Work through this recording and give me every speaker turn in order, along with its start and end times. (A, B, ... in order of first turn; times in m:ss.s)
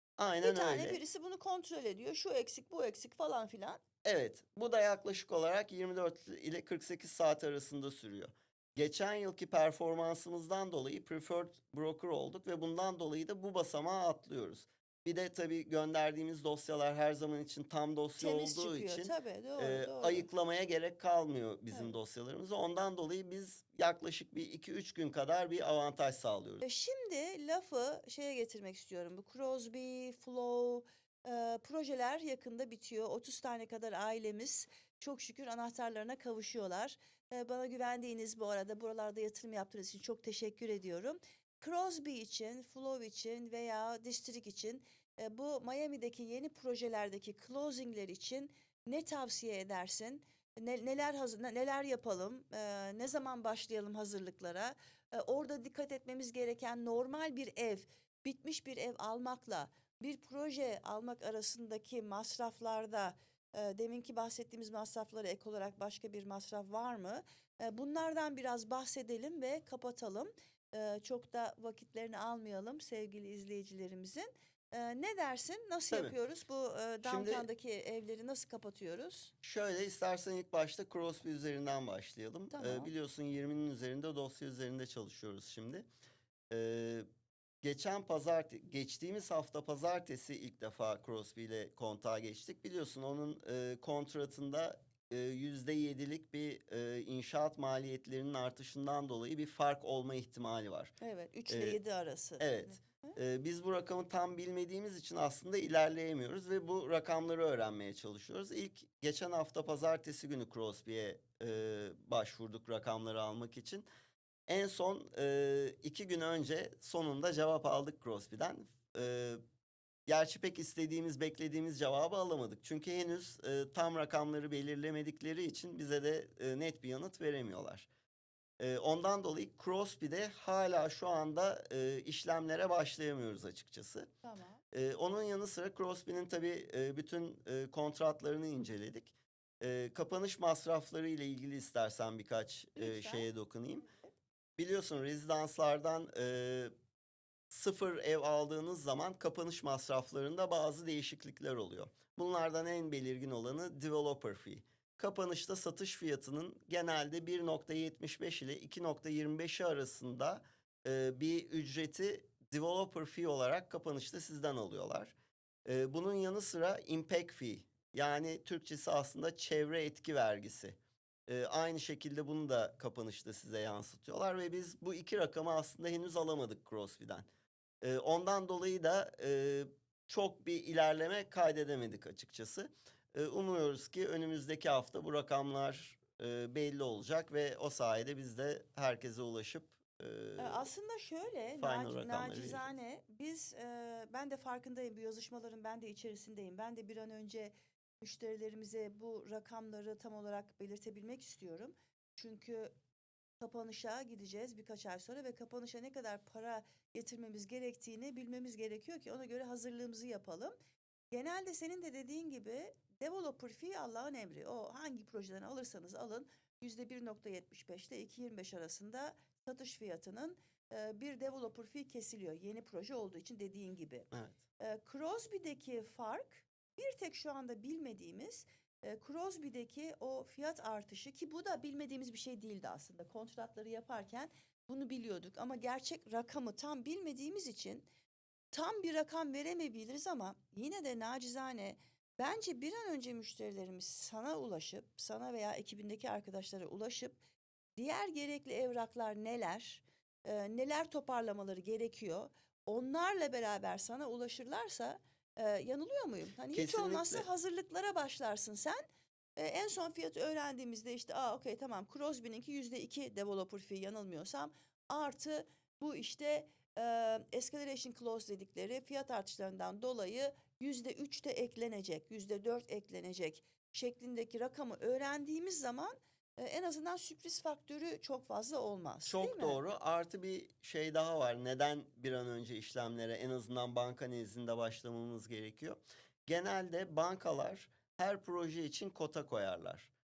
0:00.2-0:01.0 A
0:00.4-0:03.8 B
0:04.0-0:26.6 A
0:18.2-0:20.3 B
0:26.6-1:19.3 B
1:17.0-1:17.4 A
1:19.4-1:25.9 A
1:22.5-1:22.9 B
1:26.5-1:27.0 A
1:27.6-1:40.9 A
1:41.0-1:43.2 B
1:41.5-1:41.8 A
1:42.4-1:53.9 A
1:54.5-1:59.4 A
2:00.1-2:07.9 A
2:08.6-2:14.1 A
2:14.2-2:14.6 B
2:14.7-2:23.9 A
2:22.8-2:23.3 B
2:24.6-2:26.7 A
2:27.5-2:45.1 A
2:45.6-2:57.3 A
2:57.8-3:10.7 A
3:10.4-3:22.7 B
3:11.6-3:12.7 A
3:23.4-3:30.5 B
3:31.1-3:57.9 B
3:58.5-4:07.2 B
4:07.8-4:18.8 B
4:16.5-4:17.2 A
4:19.4-4:39.6 B
4:39.0-4:49.9 A